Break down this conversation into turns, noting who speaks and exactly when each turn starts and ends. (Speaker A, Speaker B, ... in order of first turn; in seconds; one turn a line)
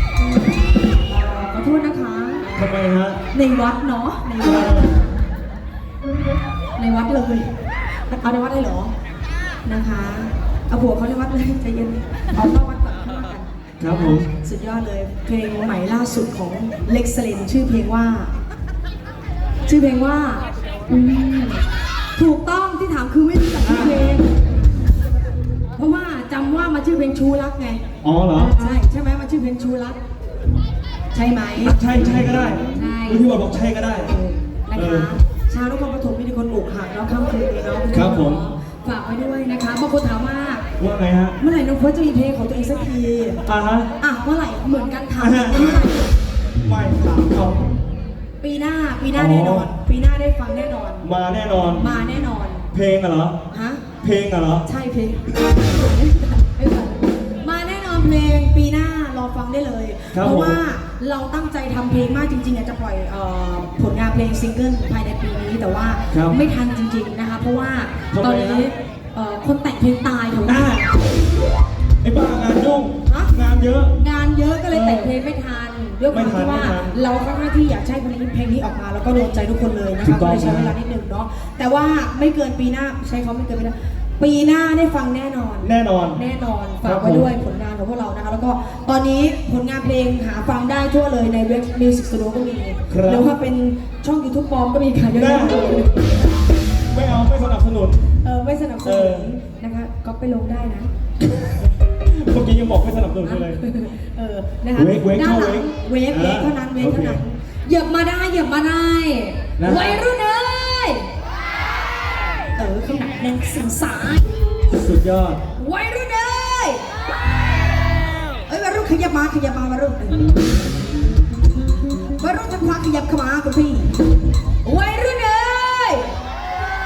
Speaker A: 1.0-2.5
Speaker B: 2.5-3.2
Speaker A: 3.3-4.9
Speaker B: 4.4-5.0
Speaker A: 6.8-8.9
Speaker A: 9.7-18.3
Speaker B: 13.8-14.3
Speaker A: 19.7-21.6
Speaker A: 22.2-24.3
Speaker B: 23.6-24.1
Speaker A: 25.8-27.8
Speaker B: 28.0-28.5
Speaker A: 28.4-30.0
Speaker A: 31.1-31.8
Speaker B: 31.6-34.1
Speaker A: 32.7-33.3
Speaker A: 34.1-40.7
Speaker B: 34.8-35.1
Speaker B: 37.9-38.4
Speaker B: 40.8-41.4
Speaker A: 41.4-43.5
Speaker B: 43.5-43.9
Speaker A: 44.0-46.1
Speaker B: 45.2-45.9
Speaker B: 46.6-47.7
Speaker A: 48.4-51.1
Speaker B: 49.1-49.7
Speaker B: 51.0-51.9
Speaker A: 51.7-52.7
Speaker B: 52.7-53.4
Speaker A: 53.5-53.9
Speaker B: 54.0-54.6
Speaker A: 54.6-70.7
Speaker B: 60.1-60.6
Speaker B: 66.1-66.4
Speaker B: 68.1-68.7
Speaker B: 70.5-70.9
Speaker B: 72.0-74.0
Speaker A: 73.1-73.3
Speaker A: 74.0-96.0
Speaker B: 74.7-75.1
Speaker B: 76.1-76.9
Speaker B: 80.0-80.8
Speaker B: 85.6-86.2
Speaker B: 86.8-87.3
Speaker B: 92.9-93.3
Speaker B: 95.2-95.7
Speaker B: 96.9-98.0
Speaker A: 98.2-100.9
Speaker B: 98.8-99.3
Speaker B: 101.4-103.6
Speaker A: 103.2-111.1
Speaker B: 104.8-107.2
Speaker B: 109.6-109.9
Speaker A: 112.5-114.6
Speaker B: 114.7-115.4
Speaker A: 115.6-116.8
Speaker A: 118.5-120.4
Speaker A: 122.2-124.0
Speaker A: 124.6-126.1